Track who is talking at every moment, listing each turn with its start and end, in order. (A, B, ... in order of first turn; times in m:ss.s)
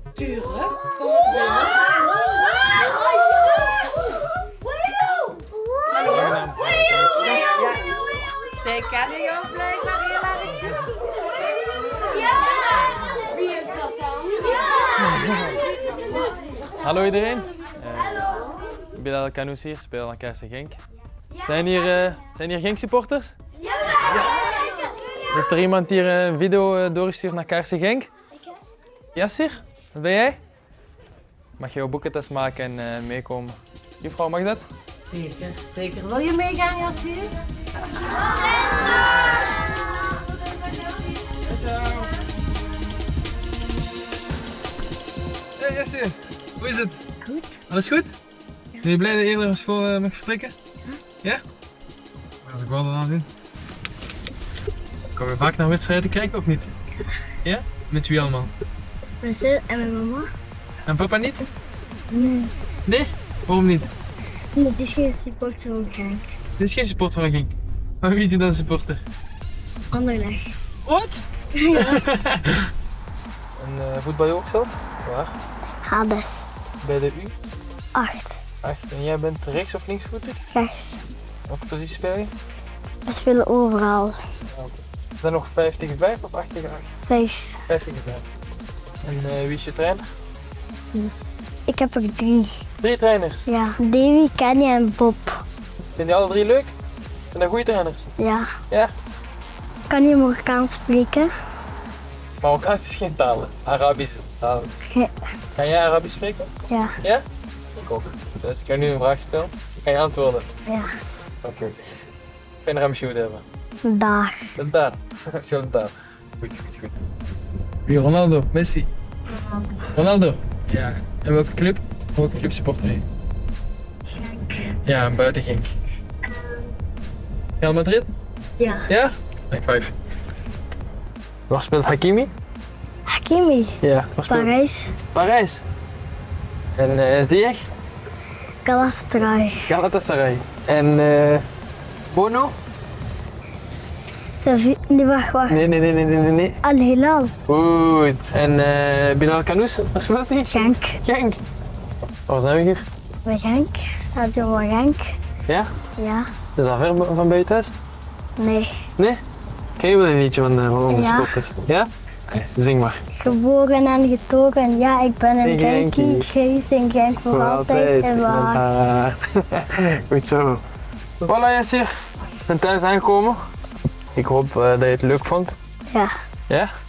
0:00.2-0:00.7 A
0:06.0-0:07.4 B
0:08.6-0:10.3 A
0:15.0-0:15.6 B
0:16.8-0:18.4 B
0:18.9-0:20.8 B
0:21.4-0:23.3 B
0:25.3-0:28.1 B
0:29.1-0:30.4 B
0:31.6-0:34.6 B
0:35.1-0:37.3 A
0:41.4-0:42.1 B
0:45.6-0:47.0 B
0:47.2-0:47.6 C
0:47.7-0:48.1 B
0:48.8-0:50.5 B
0:52.4-0:53.3 B
0:55.1-0:56.7 B
0:57.4-0:58.5 B
0:59.2-1:00.3 C
1:00.8-1:01.5 B
1:02.1-1:02.5 C
1:02.8-1:03.9 B
1:04.5-1:06.2 C
1:06.6-1:09.0 B
1:09.9-1:10.6 C
1:10.8-1:12.7 B
1:11.6-1:12.0 C
1:13.6-1:15.3 B
1:15.8-1:16.5 C
1:16.8-1:17.3 B
1:17.9-1:18.4 C
1:18.6-1:20.4 B
1:20.5-1:21.0 C
1:21.5-1:22.3 B
1:23.1-1:24.2 C
1:24.5-1:26.9 B
1:27.1-1:27.6 C
1:27.7-1:28.2 B
1:29.0-1:30.1 B
1:31.7-1:32.5 C
1:32.8-1:33.4 B
1:33.5-1:35.4 C
1:36.0-1:36.7 B
1:37.3-1:38.0 B
1:38.2-1:38.5 C
1:39.9-1:41.3 C
1:42.4-1:44.8 B
1:44.8-1:45.1 C
1:45.6-1:46.5 B
1:46.7-1:46.9 C
1:47.0-1:50.5 B
1:51.4-1:51.8 B
1:52.6-1:53.4 B
1:53.8-1:54.5 C
1:54.6-1:57.0 B
1:57.8-1:58.9 B
1:59.3-1:59.9 C
1:59.9-2:03.0 B
2:04.1-2:04.8 C
2:04.8-2:05.7 B
2:06.3-2:06.7 C
2:07.6-2:08.1 B
2:08.6-2:08.9 C
2:08.9-2:09.9 B
2:11.5-2:12.3 B
2:13.1-2:14.9 C
2:13.8-2:14.5 B
2:15.1-2:15.6 B
2:16.8-2:17.6 B
2:18.6-2:19.7 C
2:19.7-2:21.5 B
2:22.1-2:22.6 B
2:24.4-2:25.6 C
2:25.5-2:26.6 B
2:26.6-2:27.3 C
2:27.5-2:31.4 B
2:30.4-2:31.0 C
2:32.3-2:32.8 B
2:33.2-2:35.1 C
2:35.5-2:35.7 B
2:36.0-2:36.3 C
2:36.6-2:37.7 B
2:38.4-2:38.8 C
2:39.0-2:39.2 B
2:39.8-2:43.2 B
2:40.9-2:41.4 C
2:43.1-2:48.6 C
2:45.4-2:46.3 B
2:47.3-2:50.6 B
2:51.2-2:51.9 B
2:52.5-2:53.4 B
2:54.1-2:55.6 B